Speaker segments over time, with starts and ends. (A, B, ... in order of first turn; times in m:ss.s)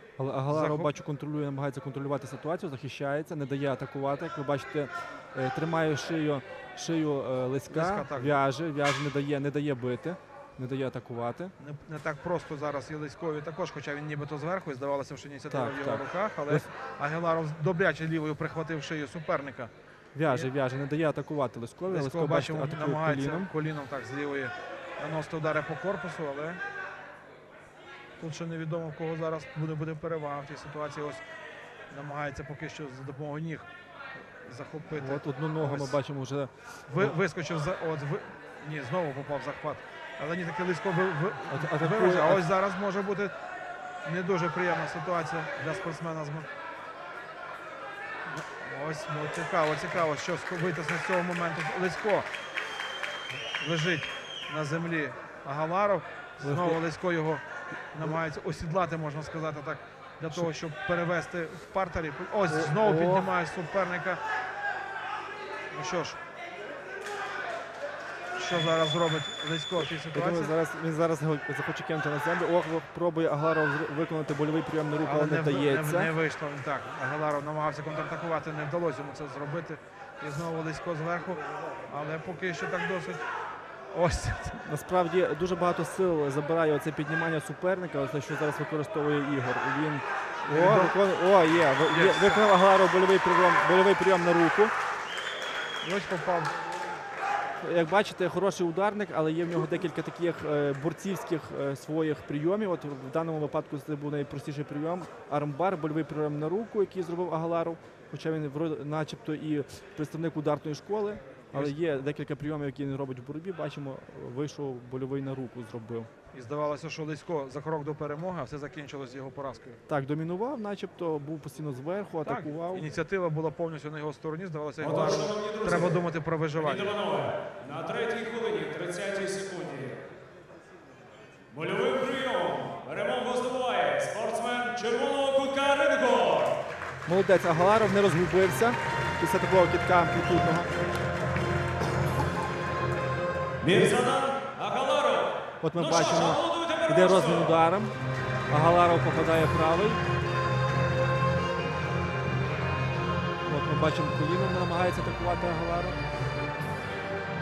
0:00.2-0:11.5 A
0:00.5-0:00.9 B
0:07.7-0:08.4 B
0:11.6-0:19.7 B
0:15.5-0:16.7 A
0:20.1-0:23.5 A
0:21.9-0:26.6 B
0:28.2-0:31.2 B
0:31.9-0:33.7 B
0:34.4-0:36.0 B
0:35.0-0:37.2 A
0:36.9-0:43.3 B
0:41.5-0:42.5 A
0:44.0-0:46.5 B
0:48.3-0:52.3 B
0:53.6-1:04.2 B
0:56.4-0:56.8 A
1:02.5-1:03.3 A
1:05.7-1:06.2 B
1:08.4-1:10.6 B
1:09.8-1:16.1 A
1:15.0-1:23.2 B
1:23.9-1:24.6 B
1:24.6-1:34.7 A
1:30.4-1:31.0 B
1:31.8-1:32.4 B
1:35.8-1:36.5 B
1:37.6-1:56.1 A
1:56.3-1:59.8 B
1:59.9-2:02.9 A
2:02.2-2:07.0 B
2:04.8-2:06.0 C
2:06.6-2:10.0 C
2:11.5-2:16.6 C
2:17.0-2:20.7 A
2:23.6-2:27.5 C
2:25.6-2:27.9 A
2:28.5-2:30.0 A
2:33.4-2:36.0 A